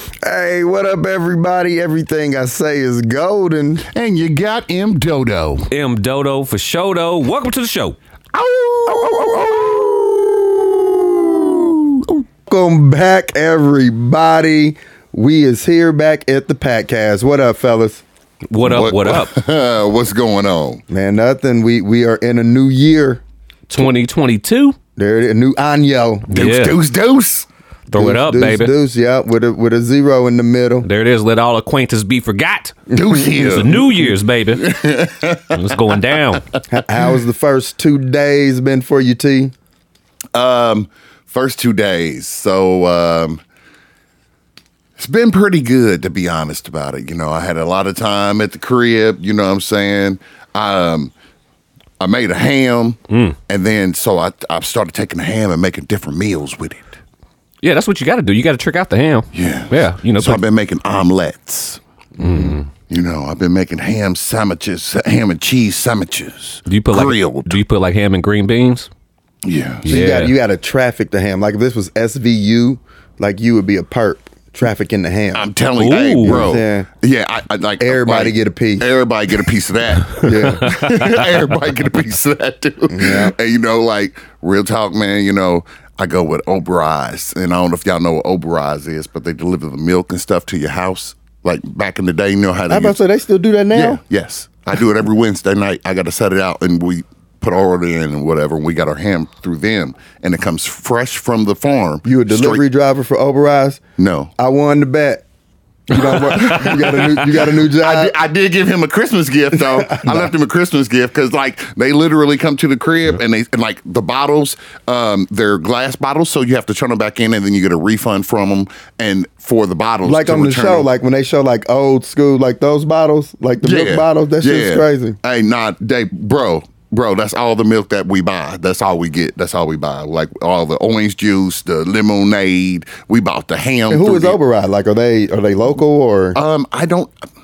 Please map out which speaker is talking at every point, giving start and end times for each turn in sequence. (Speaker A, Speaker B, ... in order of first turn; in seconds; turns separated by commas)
Speaker A: 0.2-3.8, Speaker B: 3.9-5.7, Speaker C: 5.7-8.0, Speaker B: 8.3-12.2, Speaker A: 12.5-18.0, Speaker C: 18.5-19.3, Speaker B: 18.6-20.8, Speaker A: 20.9-23.2, Speaker C: 23.7-24.8, Speaker A: 25.0-26.3, Speaker B: 26.3-27.5, Speaker C: 26.3-26.8, Speaker C: 27.9-28.7, Speaker A: 27.9-30.9, Speaker C: 30.8-32.8, Speaker A: 32.9-33.6, Speaker B: 32.9-33.9, Speaker C: 33.3-34.8, Speaker B: 34.6-35.6, Speaker C: 35.5-36.4, Speaker A: 36.7-39.5, Speaker B: 40.3-43.4, Speaker B: 45.0-51.1, Speaker B: 52.0-57.0, Speaker C: 53.1-53.4, Speaker C: 57.6-60.4, Speaker B: 59.3-61.8, Speaker C: 62.2-62.7, Speaker B: 62.8-67.6, Speaker C: 66.7-68.9, Speaker B: 69.4-69.9, Speaker C: 69.8-70.3, Speaker A: 69.8-75.5, Speaker B: 75.3-93.0, Speaker C: 75.8-76.5, Speaker A: 76.2-76.9, Speaker A: 77.8-78.9, Speaker A: 80.2-80.8, Speaker C: 80.4-81.2, Speaker A: 82.9-83.3, Speaker A: 92.7-94.0, Speaker B: 93.7-102.6, Speaker A: 102.0-103.8, Speaker B: 104.0-104.3, Speaker A: 104.4-105.2, Speaker A: 105.9-108.1, Speaker C: 106.1-106.6, Speaker B: 106.2-120.8, Speaker A: 109.5-110.3, Speaker A: 120.0-125.2, Speaker B: 123.6-134.3, Speaker A: 133.9-136.4, Speaker B: 136.3-137.2